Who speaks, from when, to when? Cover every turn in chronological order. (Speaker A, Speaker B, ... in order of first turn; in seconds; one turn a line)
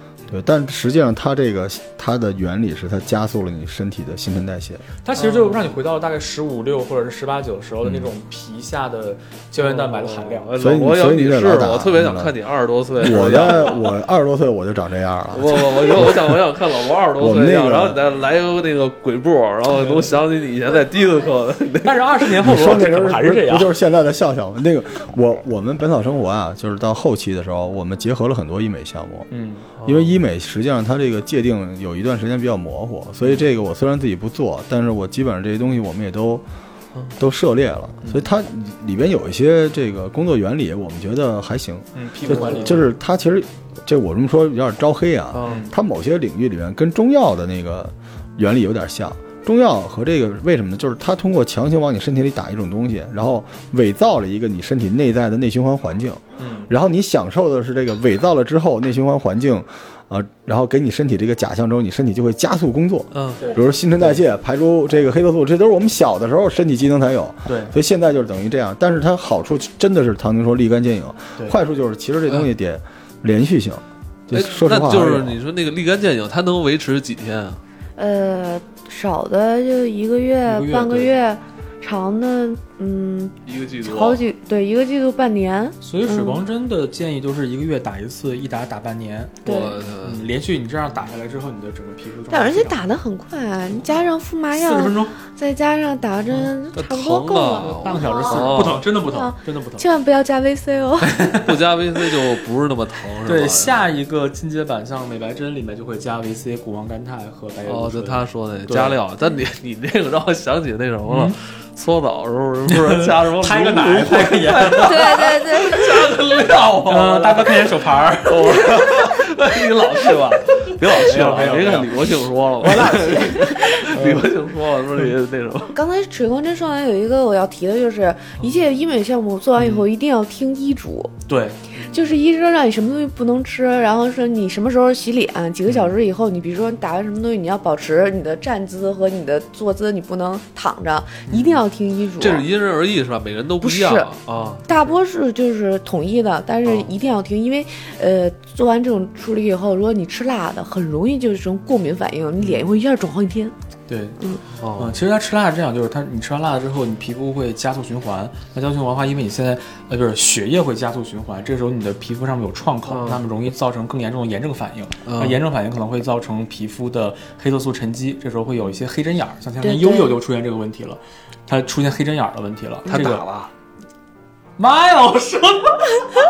Speaker A: 0.3-4.8
Speaker B: 5.0-10.5
Speaker C: 5.2-5.7
Speaker C: 9.6-13.9
Speaker A: 10.6-12.3
Speaker A: 13.0-16.4
Speaker B: 13.0-13.8
Speaker C: 15.3-22.4
Speaker A: 17.2-18.0
Speaker B: 19.6-20.1
Speaker B: 21.8-23.7
Speaker A: 22.4-29.3
Speaker B: 29.3-29.7
Speaker C: 29.7-30.2
Speaker A: 29.8-36.4
Speaker A: 37.2-75.4
Speaker B: 38.0-38.3
Speaker B: 41.9-42.9
Speaker C: 45.3-45.7
Speaker B: 45.4-45.7
Speaker B: 56.4-56.7
Speaker C: 63.1-63.4
Speaker B: 63.4-64.2
Speaker B: 67.5-67.7
Speaker C: 74.3-77.6
Speaker D: 78.0-86.4
Speaker B: 80.5-81.1
Speaker C: 83.4-84.2
Speaker B: 85.8-92.8
Speaker C: 89.4-90.3
Speaker D: 89.4-89.8
Speaker D: 92.3-101.2
Speaker B: 94.5-95.2
Speaker C: 96.7-98.8
Speaker B: 97.5-99.9
Speaker B: 101.0-101.5
Speaker C: 101.3-103.8
Speaker B: 103.2-109.0
Speaker C: 107.6-125.8
Speaker B: 111.0-111.3
Speaker B: 112.6-115.0
Speaker D: 114.7-116.2
Speaker B: 116.8-118.6
Speaker B: 120.8-124.3
Speaker D: 122.8-124.0
Speaker D: 125.7-131.1
Speaker B: 129.6-129.8
Speaker B: 131.3-132.0
Speaker D: 131.8-142.5
Speaker B: 141.3-141.6
Speaker C: 142.2-144.6
Speaker D: 143.6-144.1
Speaker B: 144.5-145.0
Speaker D: 144.6-153.5
Speaker B: 146.6-146.9
Speaker B: 152.4-152.7
Speaker B: 153.9-154.2
Speaker D: 154.2-154.4
Speaker C: 154.5-155.0
Speaker B: 154.7-173.2
Speaker C: 162.9-163.2
Speaker C: 165.0-165.4
Speaker D: 169.6-170.2
Speaker C: 172.8-173.5
Speaker B: 174.6-176.0